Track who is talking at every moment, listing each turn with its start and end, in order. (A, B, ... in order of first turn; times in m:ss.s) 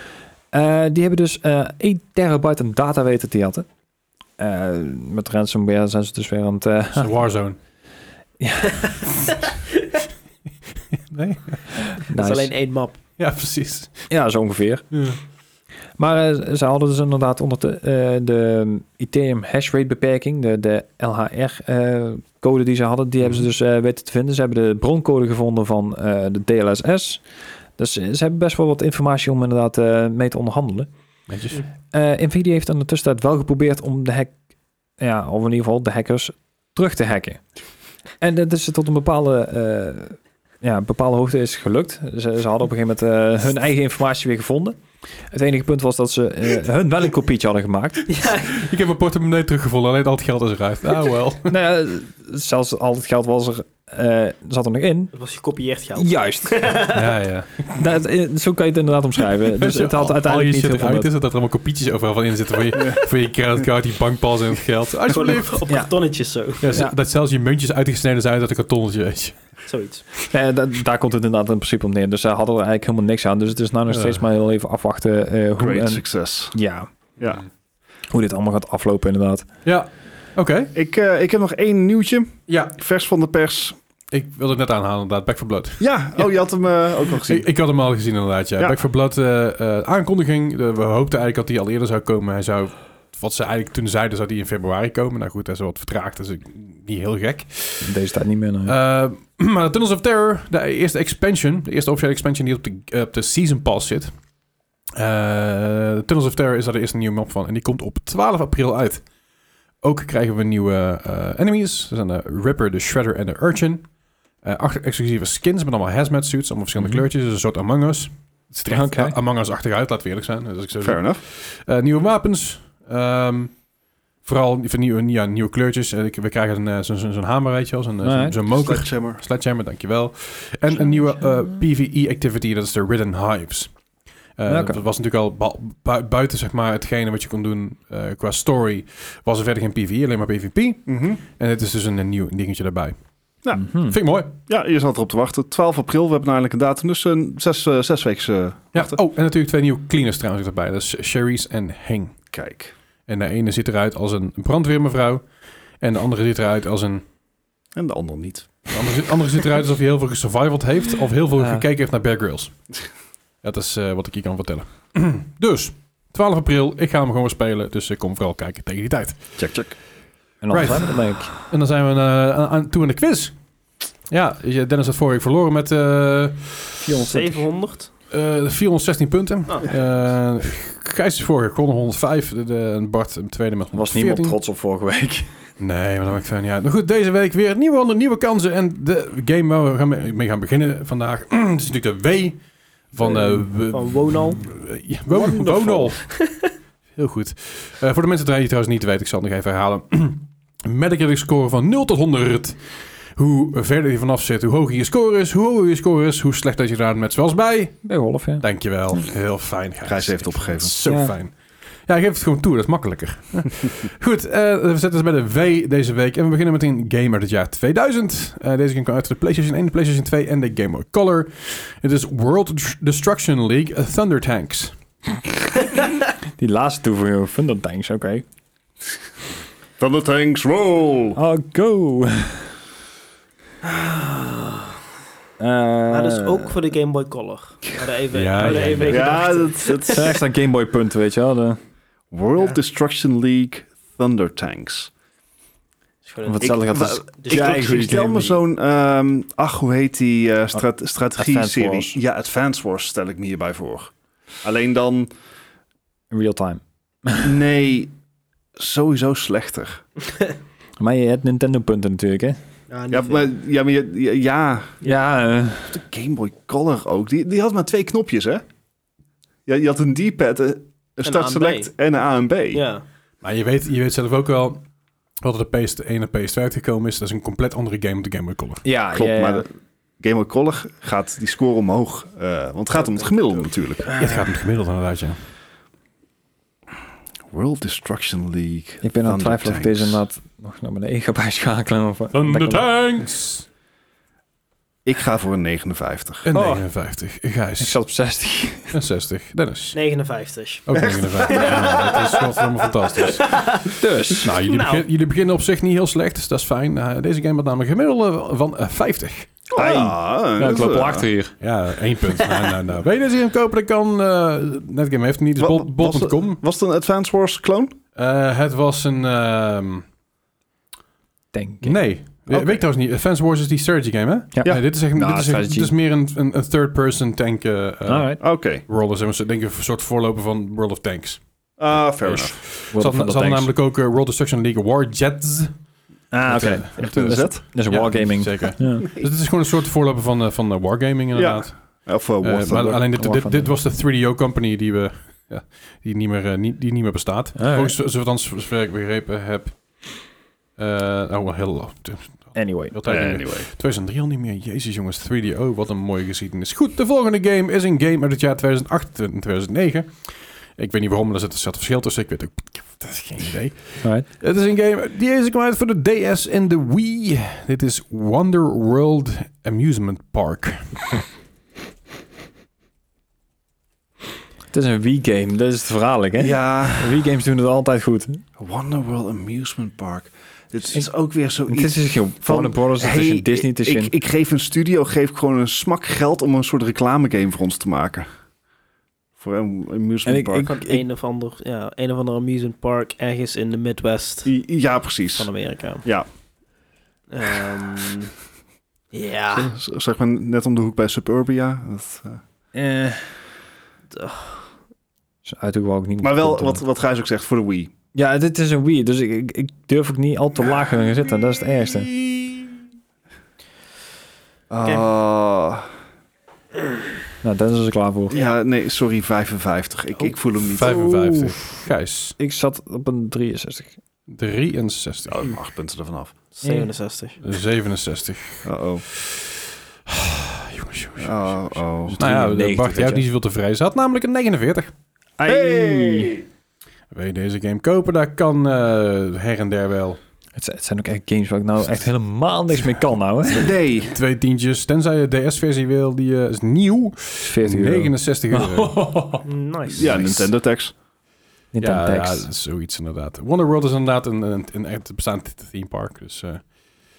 0:00.5-0:03.7 A
0:04.4-0:07.2 A
0:06.9-0:07.6 B
0:08.4-0:09.0 A
0:11.0-0:11.8 B
0:12.1-0:12.5 A
0:12.1-0:13.0 C
0:13.2-0:14.1 B
0:14.1-0:14.8 A
0:14.9-0:15.2 B
0:16.0-0:27.2 A
0:27.8-0:30.9 A
0:31.3-0:31.6 B
0:31.9-0:34.3 A
0:35.0-0:37.4 A
0:38.2-0:44.8 A
0:45.3-0:48.1 A
0:48.1-0:48.5 C
0:48.3-0:51.5 B
0:51.5-0:55.1 A
0:55.1-0:57.0 C
0:55.9-0:56.8 A
0:56.9-0:57.7 B
0:57.7-1:01.1 A
0:59.4-1:05.7 B
1:05.1-1:06.7 C
1:06.6-1:09.4 B
1:09.7-1:10.0 C
1:10.3-1:16.9 A
1:13.9-1:14.2 B
1:15.6-1:16.6 D
1:18.1-1:19.4 A
1:19.6-1:20.7 B
1:20.7-1:23.8 D
1:22.5-1:22.8 B
1:24.1-1:26.3 B
1:25.8-1:27.5 D
1:27.1-1:37.9 B
1:37.8-1:38.7 A
1:38.6-1:44.1 B
1:45.0-1:49.0 B
1:49.8-1:53.9 B
1:54.4-2:03.6 B
1:58.7-1:59.1 A
2:00.8-2:01.2 D
2:04.2-2:13.7 B
2:08.0-2:08.4 A
2:08.5-2:09.2 D
2:14.4-2:23.0 B
2:14.5-2:14.8 A
2:20.9-2:21.2 D
2:23.5-2:24.0 A
2:23.8-2:24.3 B
2:24.5-2:29.0 D
2:28.7-2:32.2 B
2:32.3-2:32.7 D
2:33.1-2:35.2 B
2:35.8-2:37.0 B
2:37.7-2:38.7 D
2:38.7-2:42.5 B
2:41.4-2:41.6 A
2:43.4-2:49.2 B
2:49.4-2:49.7 D
2:50.4-2:51.3 A
2:50.5-2:53.4 B
2:54.1-2:56.8 B
2:56.8-2:57.5 A
2:57.0-2:57.9 C
2:58.1-3:04.4 B
3:03.7-3:05.3 A
3:05.6-3:16.0 B
3:13.7-3:14.5 C
3:15.1-3:16.5 C
3:17.0-3:27.8 B
3:27.8-3:28.4 A
3:28.4-3:44.7 B
3:29.8-3:30.7 D
3:30.8-3:31.1 A
3:46.4-3:48.2 A
3:49.8-3:51.2 D
3:51.1-3:52.5 A
3:55.4-3:56.5 A
3:55.9-4:00.1 C
3:58.1-3:59.1 B
3:58.4-3:58.9 A
3:58.8-4:00.1 D
3:59.8-4:01.6 A
4:02.1-4:04.9 D
4:06.0-4:06.6 C
4:06.2-4:08.4 A
4:06.4-4:15.1 D
4:07.2-4:07.9 C
4:11.2-4:12.0 A
4:16.1-4:17.4 A
4:17.2-4:17.9 D
4:18.6-4:19.8 D
4:20.8-4:22.4 A
4:22.7-4:23.3 C
4:22.9-4:24.8 D
4:24.8-4:25.8 A
4:25.7-4:28.4 D
4:29.4-4:32.6 D
4:31.0-4:31.7 C
4:32.5-4:32.8 C
4:33.2-4:34.6 B
4:35.2-4:38.6 B
4:38.6-4:39.4 A
4:38.9-4:43.9 D
4:42.7-4:43.1 C
4:43.9-4:44.2 C
4:44.0-4:45.2 B
4:47.3-4:50.0 D
4:48.8-4:52.7 A
4:52.1-4:53.5 B
4:54.8-4:56.3 D
4:56.2-4:57.8 B
4:56.3-4:56.6 A
4:57.6-4:58.7 A
4:58.7-4:59.8 B
4:59.7-5:04.8 C
5:00.6-5:03.3 B
5:03.7-5:04.3 A
5:04.2-5:09.3 B
5:09.5-5:11.1 D
5:09.5-5:11.3 A
5:11.4-5:16.4 B
5:15.4-5:17.7 D
5:18.0-5:19.8 B
5:21.3-5:21.8 A
5:21.6-5:31.2 B
5:22.3-5:22.6 D
5:24.3-5:25.7 A
5:27.9-5:28.2 A
5:28.2-5:28.6 D
5:31.6-5:32.4 D
5:32.0-5:35.5 B
5:32.7-5:33.5 A
5:36.1-5:38.9 A
5:36.3-5:49.6 B
5:36.8-5:37.3 D
5:41.1-5:42.8 D
5:43.0-5:43.6 A
5:47.4-5:47.7 A
5:50.6-6:10.9 B
5:52.3-5:52.8 A
5:52.8-5:53.5 D
6:14.5-6:18.2 A
6:16.2-6:17.0 D
6:18.4-6:28.1 D
6:21.5-6:23.9 A
6:29.2-6:30.5 D
6:30.0-6:30.8 A
6:30.4-6:34.3 C
6:34.2-6:35.3 D
6:35.2-6:35.8 C
6:37.1-6:38.1 C
6:38.9-6:39.5 C
6:39.3-6:42.2 D
6:42.5-6:43.1 A
6:43.9-6:44.5 C
6:45.2-6:46.6 A
6:46.0-6:47.7 D
6:47.9-6:51.9 A
6:54.5-6:55.7 D
6:57.2-6:58.2 A
6:58.1-7:00.8 D
7:00.5-7:02.1 B
7:00.9-7:01.3 A
7:02.2-7:03.8 A
7:04.1-7:05.2 B
7:05.1-7:06.1 D
7:06.3-7:07.2 C
7:06.4-7:06.7 A
7:07.2-7:14.7 B
7:08.4-7:08.8 D
7:11.0-7:12.0 D
7:11.9-7:13.0 A
7:15.2-7:16.2 A
7:15.3-7:16.2 D
7:16.9-7:20.0 B
7:20.4-7:23.6 A
7:23.2-7:23.9 D
7:23.9-7:28.8 B
7:27.2-7:29.2 A
7:29.2-7:30.1 C
7:29.7-7:30.7 D
7:29.8-7:30.3 B
7:31.5-7:32.3 A
7:31.6-7:36.5 B